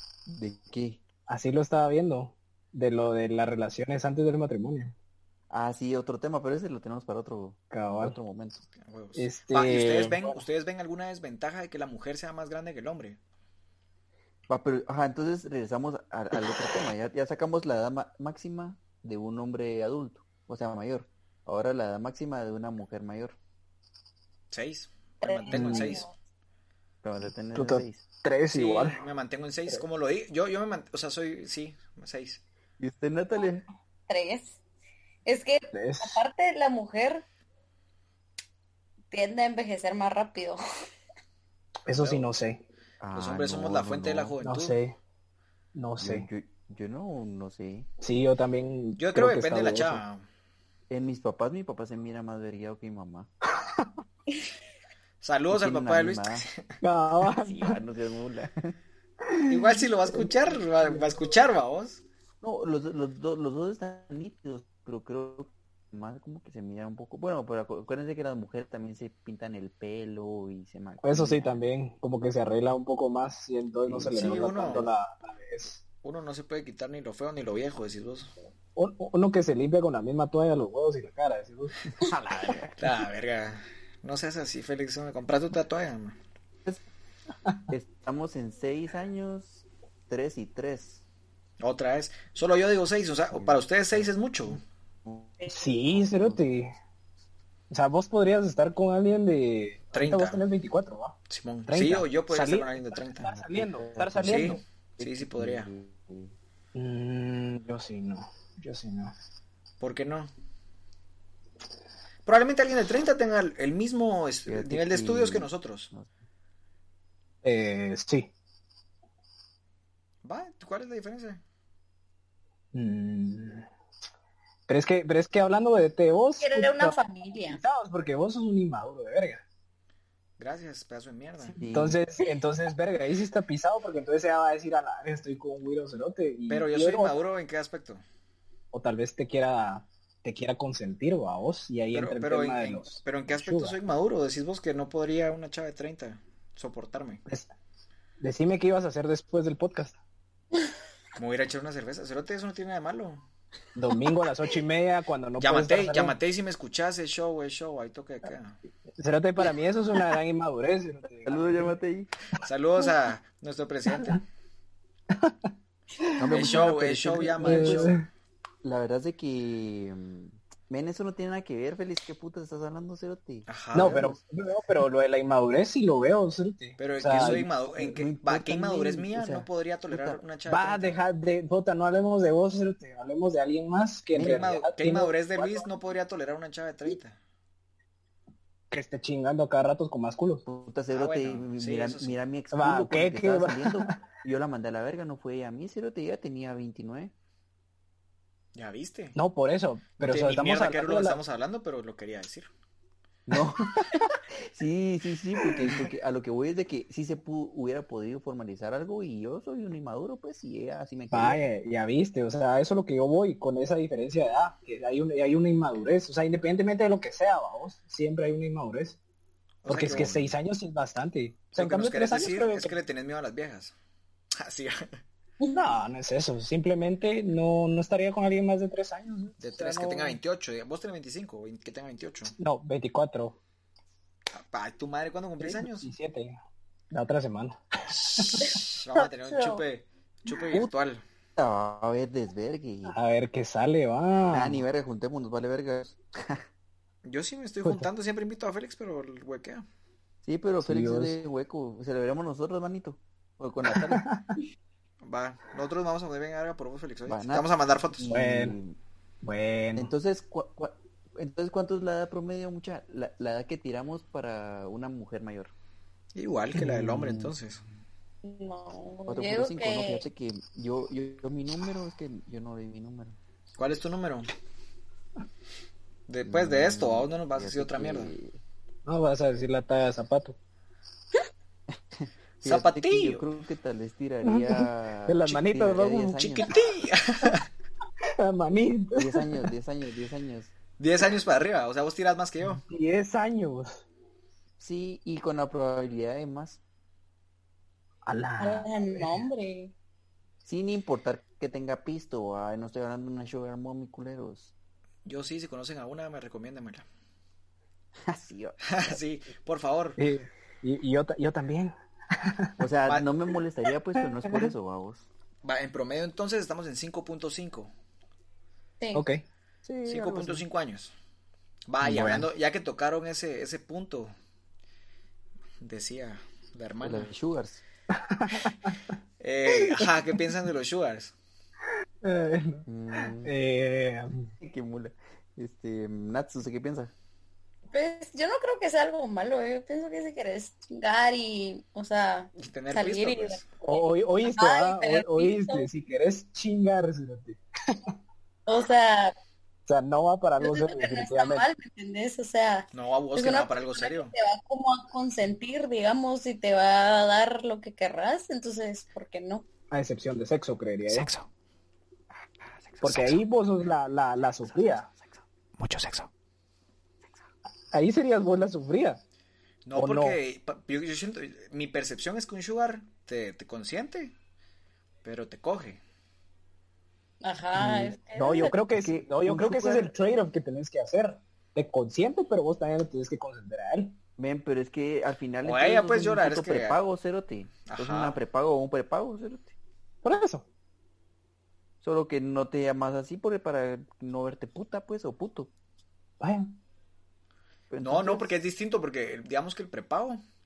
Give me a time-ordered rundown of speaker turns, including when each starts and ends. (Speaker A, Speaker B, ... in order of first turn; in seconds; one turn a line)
Speaker A: 0.3-1.0
Speaker B: 1.3-4.9
Speaker A: 5.5-8.7
Speaker B: 7.7-8.2
Speaker C: 8.8-13.2
Speaker B: 9.2-10.4
Speaker A: 14.5-23.4
Speaker C: 24.5-26.1
Speaker D: 25.2-26.1
Speaker B: 25.5-25.9
Speaker A: 27.0-28.0
Speaker B: 27.5-28.9
Speaker C: 28.5-32.4
Speaker A: 32.8-33.6
Speaker D: 34.1-34.6
Speaker D: 35.2-37.2
Speaker B: 35.7-36.2
Speaker D: 39.1-40.6
Speaker B: 41.9-42.6
Speaker C: 42.0-42.3
Speaker A: 43.0-44.4
Speaker C: 43.1-44.8
Speaker B: 44.4-45.0
Speaker B: 45.7-46.2
Speaker A: 46.0-47.9
Speaker B: 48.0-50.0
Speaker C: 49.0-50.2
Speaker A: 50.9-53.3
Speaker B: 53.6-53.9
Speaker C: 55.2-56.5
Speaker A: 55.5-56.4
Speaker B: 56.8-57.8
Speaker A: 57.5-58.8
Speaker B: 59.3-59.8
Speaker C: 59.5-62.0
Speaker A: 60.1-61.1
Speaker A: 62.4-71.7
Speaker B: 71.0-75.8
Speaker A: 73.8-74.9
Speaker C: 74.1-74.9
Speaker C: 76.0-78.3
Speaker B: 78.8-81.8
Speaker A: 82.0-82.7
Speaker C: 82.8-86.2
Speaker A: 87.7-91.0
Speaker C: 91.6-94.6
Speaker A: 93.3-94.1
Speaker A: 95.0-95.3
Speaker B: 95.5-96.7
Speaker A: 95.9-96.4
Speaker B: 97.7-101.2
Speaker C: 99.9-100.4
Speaker C: 101.3-103.4
Speaker B: 101.7-104.6
Speaker A: 103.5-106.3
Speaker C: 104.2-105.7
Speaker B: 106.7-109.1
Speaker C: 109.8-110.3
Speaker C: 112.2-115.9
Speaker A: 114.5-116.1
Speaker B: 117.4-118.3
Speaker C: 120.2-121.4
Speaker B: 122.7-123.7
Speaker B: 124.7-129.4
Speaker D: 126.4-127.6
Speaker C: 130.4-131.6
Speaker A: 131.6-132.0
Speaker B: 131.7-137.2
Speaker C: 136.5-138.0
Speaker B: 138.7-143.8
Speaker C: 141.9-147.2
Speaker B: 148.2-150.0
Speaker C: 151.2-153.2
Speaker B: 153.8-156.2
Speaker C: 155.4-158.6
Speaker B: 159.0-161.7
Speaker A: 161.2-162.1
Speaker C: 162.4-164.2
Speaker B: 165.1-166.6
Speaker A: 166.2-168.0
Speaker C: 166.3-168.0
Speaker B: 167.4-168.1
Speaker A: 168.6-174.2
Speaker C: 173.5-174.0
Speaker B: 173.7-177.4
Speaker C: 176.8-181.0
Speaker A: 177.1-180.2
Speaker B: 180.4-185.7
Speaker A: 184.1-184.5
Speaker C: 184.2-187.2
Speaker B: 188.7-190.4
Speaker A: 190.4-197.1
Speaker C: 190.9-192.2
Speaker B: 192.5-194.0
Speaker C: 198.5-199.2
Speaker B: 199.1-201.2
Speaker C: 200.0-202.5
Speaker B: 203.3-203.9
Speaker A: 203.3-211.4
Speaker B: 205.5-205.8
Speaker B: 211.1-219.0
Speaker C: 219.6-220.3
Speaker B: 219.7-222.8
Speaker C: 221.5-223.7
Speaker C: 224.4-224.9
Speaker B: 225.5-230.2
Speaker C: 229.4-232.3
Speaker B: 232.4-233.4
Speaker C: 234.4-235.9
Speaker B: 235.4-236.4
Speaker B: 236.9-238.6
Speaker C: 237.9-241.0
Speaker D: 238.4-239.6
Speaker A: 241.4-243.0
Speaker B: 242.8-244.6
Speaker A: 244.3-246.4
Speaker C: 247.0-249.6
Speaker B: 247.6-247.9
Speaker A: 250.2-254.0
Speaker B: 250.6-251.2
Speaker B: 253.6-254.4
Speaker C: 255.0-258.1
Speaker A: 257.1-258.8
Speaker B: 258.1-258.6
Speaker B: 259.2-259.9
Speaker A: 259.8-265.5
Speaker C: 266.1-267.6
Speaker B: 266.6-266.9
Speaker A: 266.6-267.3
Speaker D: 268.2-270.0
Speaker A: 269.1-273.2
Speaker C: 273.6-274.3
Speaker C: 276.1-278.1
Speaker A: 276.2-278.4
Speaker B: 278.9-280.4
Speaker A: 281.7-286.5
Speaker C: 282.4-283.2
Speaker B: 284.2-286.5
Speaker C: 286.2-287.4
Speaker B: 288.2-289.4
Speaker A: 288.9-290.5
Speaker C: 290.8-292.6
Speaker B: 292.6-293.8
Speaker A: 294.6-296.6
Speaker B: 298.1-299.3
Speaker D: 298.4-299.7
Speaker A: 300.4-304.5
Speaker C: 305.0-306.9
Speaker A: 308.1-308.9
Speaker C: 308.6-310.0
Speaker B: 310.0-312.5
Speaker A: 312.6-315.1
Speaker B: 314.0-314.5
Speaker C: 315.4-317.7
Speaker D: 318.8-319.0
Speaker B: 318.9-319.2
Speaker A: 319.6-320.4
Speaker C: 319.9-320.9
Speaker C: 321.7-324.1
Speaker B: 321.8-322.3
Speaker C: 325.6-327.1
Speaker A: 326.8-327.6
Speaker B: 327.9-328.8
Speaker C: 329.2-331.1
Speaker B: 329.5-329.9
Speaker B: 332.0-334.2
Speaker A: 332.6-333.3
Speaker A: 334.4-336.9
Speaker D: 337.7-345.7
Speaker C: 342.4-343.5
Speaker B: 343.6-347.4
Speaker D: 348.5-349.1
Speaker B: 349.7-351.5
Speaker D: 350.4-359.5
Speaker C: 352.7-354.1
Speaker B: 359.7-361.1
Speaker C: 360.9-361.3
Speaker C: 362.8-363.2
Speaker B: 362.8-364.9
Speaker A: 364.4-365.2
Speaker C: 365.6-366.1
Speaker B: 367.7-369.0
Speaker C: 369.6-374.1
Speaker B: 369.7-370.2
Speaker C: 375.0-375.8
Speaker D: 377.2-378.6
Speaker A: 377.6-378.0
Speaker B: 378.1-384.0
Speaker A: 378.7-379.9
Speaker A: 384.2-389.5
Speaker C: 385.4-386.8
Speaker C: 387.7-388.2
Speaker B: 390.0-390.4
Speaker A: 391.8-395.5
Speaker B: 396.2-396.6
Speaker A: 397.7-398.3
Speaker C: 397.8-400.2